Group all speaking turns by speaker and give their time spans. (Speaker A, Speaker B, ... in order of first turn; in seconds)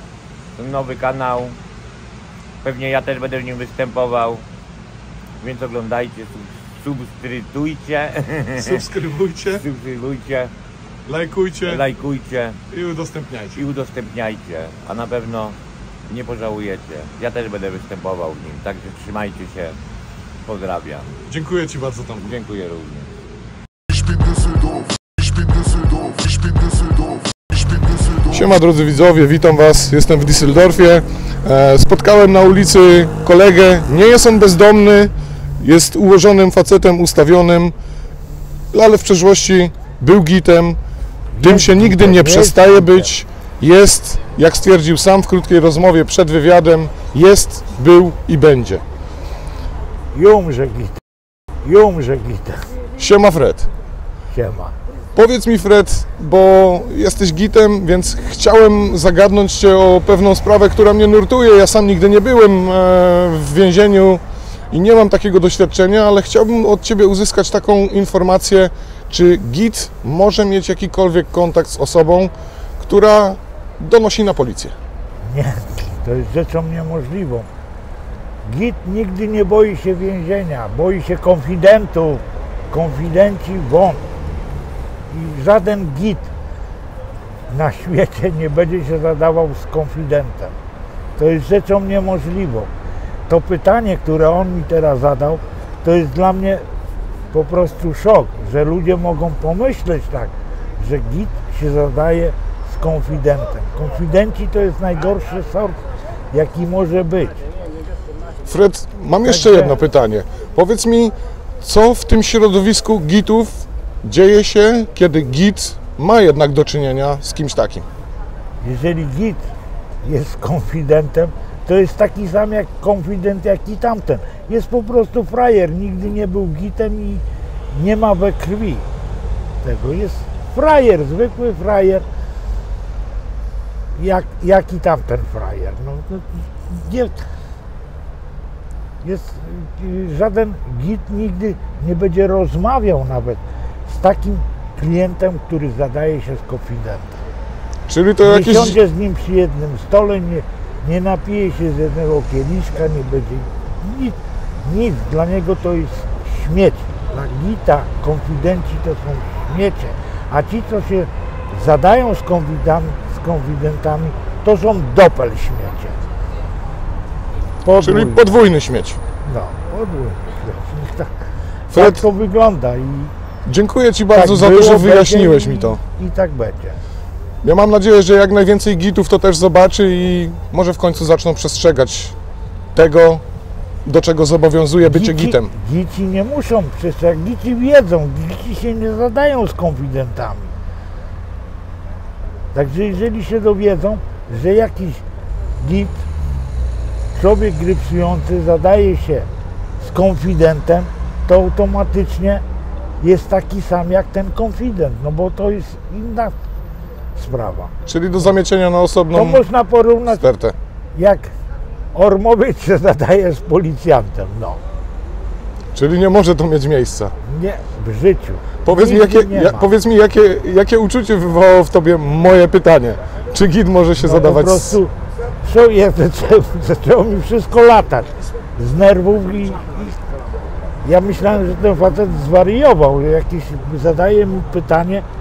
Speaker A: 0.6-1.6, 2.6-4.5, 5.4-8.8, 9.5-10.5, 11.6-12.6, 13.5-19.8, 20.4-21.1, 22.2-23.1
Speaker B: 8.6-9.6, 11.1-11.8, 12.7-13.6, 21.3-22.3, 24.3-24.5, 25.9-26.6, 27.9-37.7, 38.7-40.8, 41.4-48.8, 53.0-53.7, 55.1-74.7, 108.5-117.8, 147.9-148.8, 167.8-169.0, 171.7-172.1, 173.4-175.8, 177.4-182.1, 182.7-183.2, 183.8-185.5, 207.8-209.4, 210.1-210.6, 215.7-217.1, 218.6-224.8
Speaker C: 41.3-43.1, 50.1-51.0, 51.6-52.7, 54.3-54.8, 75.2-77.5, 78.4-84.1, 85.1-86.3, 87.5-90.6, 91.2-92.7, 93.3-96.6, 97.3-107.5, 109.2-109.8, 118.6-119.5, 120.0-128.9, 129.6-132.1, 133.9-137.2, 139.0-147.2, 148.2-166.0, 167.6-168.3, 169.2-171.2, 171.7-173.1, 174.1-176.8, 184.8-190.5, 192.5-195.0, 195.6-196.1, 197.1-199.3, 199.8-202.4, 203.0-206.4, 207.1-207.7, 209.1-210.3, 210.9-211.3, 211.9-214.6, 217.2-219.7, 224.0-230.0, 230.8-235.1